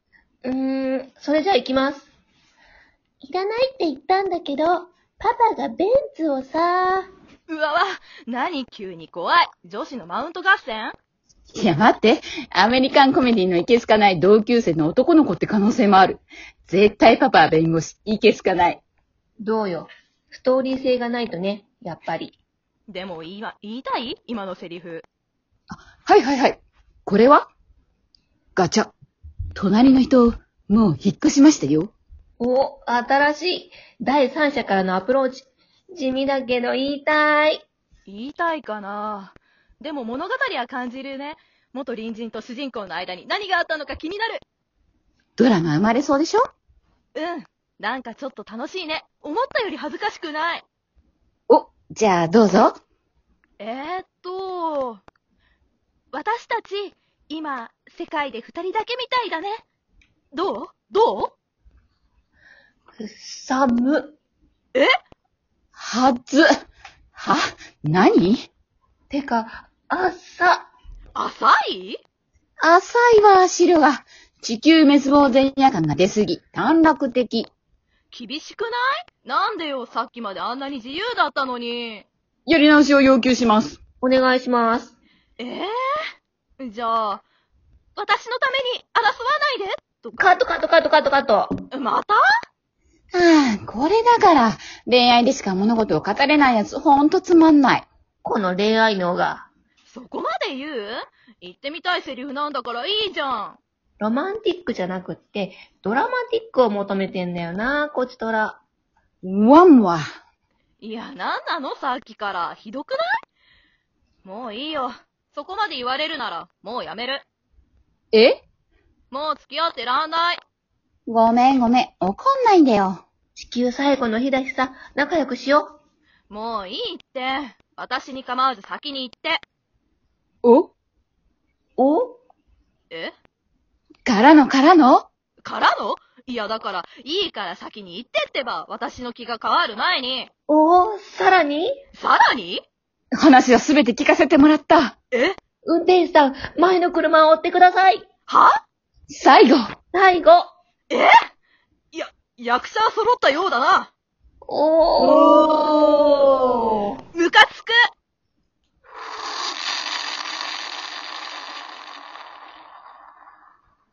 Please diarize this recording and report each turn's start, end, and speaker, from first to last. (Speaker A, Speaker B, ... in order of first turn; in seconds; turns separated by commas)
Speaker A: 0.4-2.1, Speaker A: 3.2-7.1, Speaker B: 7.5-10.9, Speaker C: 11.5-18.8, Speaker A: 19.4-22.4, Speaker B: 22.9-25.1, Speaker C: 25.7-27.5, Speaker C: 28.6-28.9, Speaker C: 29.5-31.9, Speaker A: 32.4-37.6, Speaker B: 38.1-44.4, Speaker C: 45.4-46.5, Speaker B: 47.1-50.6, Speaker C: 51.5-52.8, Speaker B: 53.6-55.0, Speaker B: 56.1-59.6, Speaker B: 60.3-61.3, Speaker A: 63.0-64.2, Speaker C: 65.8-66.5, Speaker C: 67.1-68.5, Speaker A: 69.1-70.7, Speaker B: 71.1-72.0, Speaker C: 72.6-77.5, Speaker B: 78.1-82.0, Speaker C: 82.5-83.8, Speaker A: 84.0-84.9, Speaker B: 85.4-85.7, Speaker B: 86.6-87.2, Speaker B: 88.0-90.2, Speaker A: 90.2-91.5, Speaker B: 91.7-92.2, Speaker C: 93.1-97.8, Speaker A: 98.2-99.5, Speaker B: 99.9-103.6, Speaker A: 104.0-108.6, Speaker C: 109.2-110.0, Speaker B: 110.8-113.0, Speaker B: 114.2-117.2, Speaker C: 118.1-118.4, Speaker B: 119.1-120.4, Speaker C: 121.1-123.0, Speaker A: 123.3-125.8, Speaker B: 126.3-129.4, Speaker C: 130.4-130.7, Speaker A: 131.8-132.2, Speaker C: 134.0-135.1, Speaker B: 135.4-140.3, Speaker A: 140.5-141.7, Speaker B: 141.9-142.6, Speaker C: 143.1-144.9, Speaker A: 145.6-148.1, Speaker B: 148.3-148.6, Speaker C: 149.1-149.7, Speaker A: 149.9-150.4, Speaker B: 151.9-153.9, Speaker A: 154.4-156.9, Speaker B: 155.0-157.7